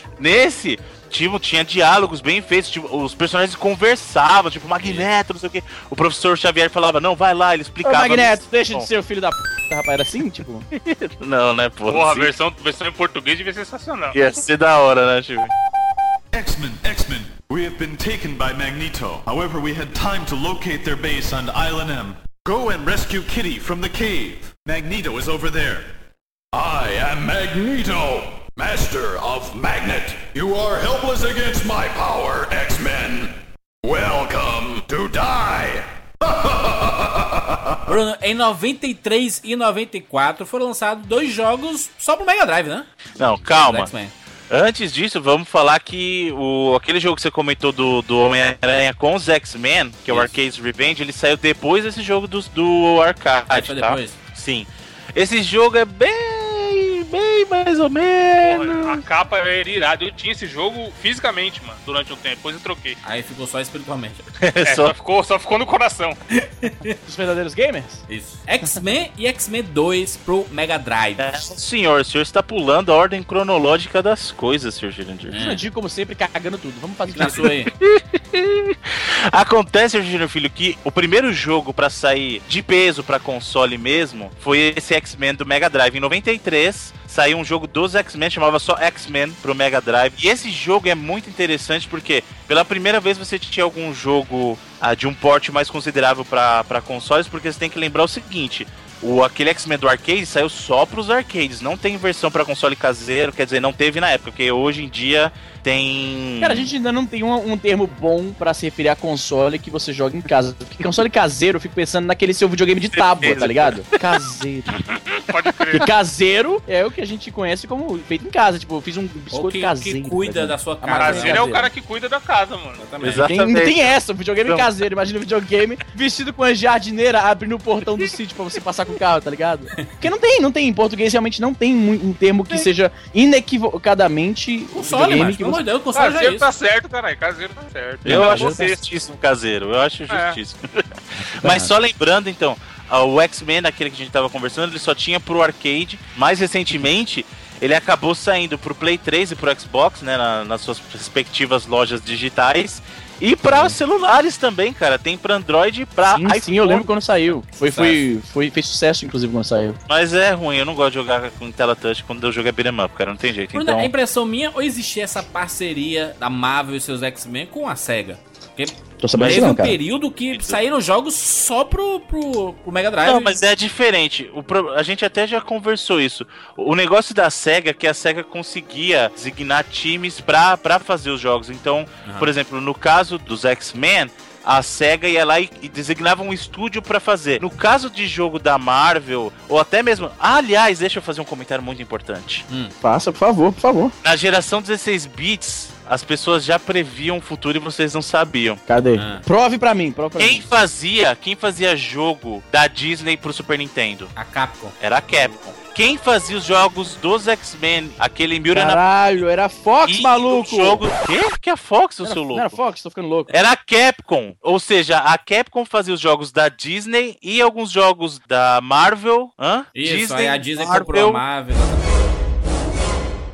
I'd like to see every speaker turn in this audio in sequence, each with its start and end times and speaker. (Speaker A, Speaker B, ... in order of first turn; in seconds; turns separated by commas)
Speaker A: 0.2-8.9, Speaker B: 4.8-5.1, Speaker C: 7.8-10.7, Speaker A: 10.8-12.3, Speaker D: 11.9-14.2, Speaker A: 14.1-15.5, Speaker E: 16.3-25.9, Speaker E: 26.5-37.8, Speaker B: 37.9-42.9, Speaker A: 43.2-43.9, Speaker B: 43.5-44.1, Speaker A: 44.5-59.0, Speaker B: 50.1-50.3, Speaker B: 53.5-54.2, Speaker D: 58.4-63.0, Speaker B: 63.0-64.3, Speaker A: 64.4-64.9, Speaker D: 64.7-66.2, Speaker B: 66.3-67.0, Speaker C: 67.0-68.0, Speaker B: 68.1-71.5, Speaker A: 71.2-75.4, Speaker B: 75.3-75.6, Speaker C: 75.4-77.5, Speaker B: 77.1-77.7, Speaker A: 77.2-106.7, Speaker C: 106.4-114.8, Speaker A: 113.0-113.8, Speaker D: 115.3-115.9, Speaker C: 115.7-121.7, Speaker B: 119.3-121.5, Speaker D: 121.0-122.8, Speaker B: 122.8-123.3, Speaker A: 123.0-124.0, Speaker C: 123.2-135.6, Speaker B: 129.8-130.0, Speaker B: 134.7-136.5, Speaker D: 135.9-138.8, Speaker C: 138.1-138.6, Speaker A: 138.1-156.9, Speaker D: 140.1-140.4, Speaker C: 141.4-141.7, Speaker C: 153.5-153.8, Speaker C: 156.1-159.8, Speaker B: 157.5-158.0, Speaker A: 159.9-163.9, Speaker B: 163.5-173.4, Speaker C: 169.0-169.8, Speaker A: 169.2-169.6, Speaker A: 170.3-170.6, Speaker A: 173.1-192.4, Speaker B: 182.0-182.3, Speaker B: 192.5-192.7, Speaker C: 192.8-193.9, Speaker A: 194.0-198.6, Speaker C: 198.7-200.5, Speaker B: 198.9-199.2, Speaker A: 200.2-204.1, Speaker B: 204.2-204.8, Speaker A: 204.8-208.8, Speaker C: 208.5-210.8, Speaker A: 209.9-212.6, Speaker C: 212.0-213.3, Speaker A: 213.3-221.2, Speaker B: 219.8-222.2